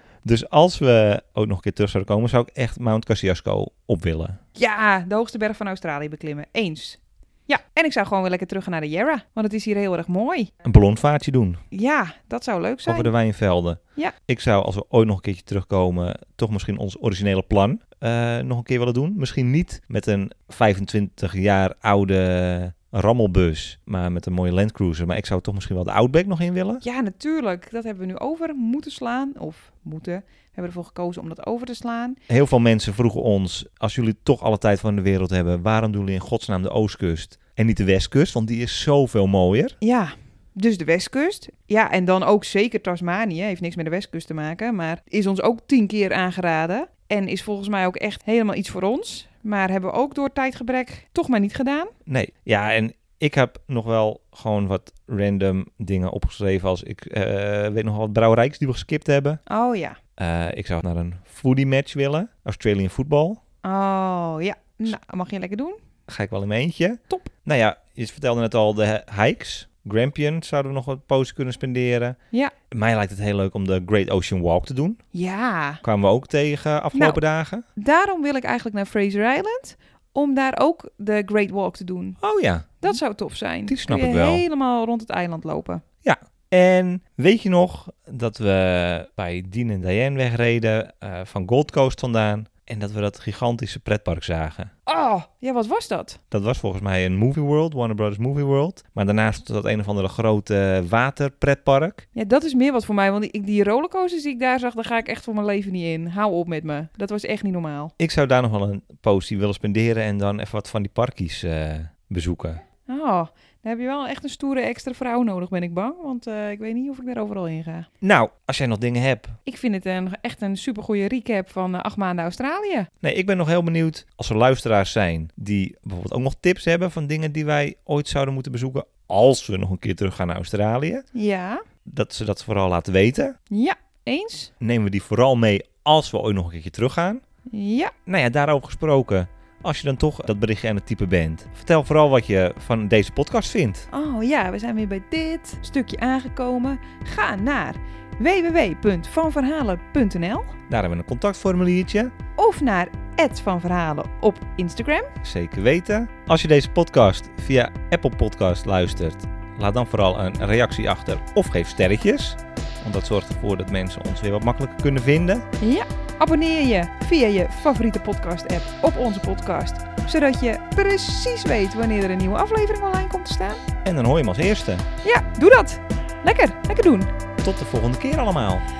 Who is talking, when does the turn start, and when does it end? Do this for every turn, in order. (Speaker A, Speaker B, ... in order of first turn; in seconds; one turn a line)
Speaker A: 0.2-4.4
Speaker B: 4.5-10.5
Speaker A: 10.6-11.6
Speaker B: 11.7-13.1
Speaker A: 12.9-26.8
Speaker B: 26.8-32.2
Speaker A: 32.3-39.8
Speaker B: 39.8-51.9
Speaker A: 52.0-59.4
Speaker B: 59.5-60.0
Speaker A: 60.2-63.4
Speaker B: 63.6-65.8
Speaker A: 66.1-72.2
Speaker A: 72.7-75.0
Speaker B: 75.1-75.8
Speaker A: 75.8-77.6
Speaker B: 76.9-77.2
Speaker B: 77.8-82.2
Speaker A: 82.2-83.0
Speaker B: 82.8-85.8
Speaker A: 83.7-84.4
Speaker A: 86.0-94.7
Speaker B: 94.9-96.2
Speaker A: 96.3-102.0
Speaker B: 102.1-107.9
Speaker A: 108.0-112.6
Speaker B: 112.9-117.9
Speaker A: 118.0-119.4
Speaker B: 119.4-122.9
Speaker A: 123.0-131.0
Speaker B: 131.1-131.6
Speaker A: 131.8-133.3
Speaker B: 133.5-134.5
Speaker A: 134.6-137.2
Speaker B: 137.5-137.9
Speaker A: 138.1-143.9
Speaker B: 143.9-150.6
Speaker A: 150.7-152.1
Speaker B: 152.4-155.1
Speaker A: 155.2-165.4
Speaker B: 165.6-173.6
Speaker A: 173.8-174.8
Speaker B: 175.0-177.1
Speaker A: 177.4-178.6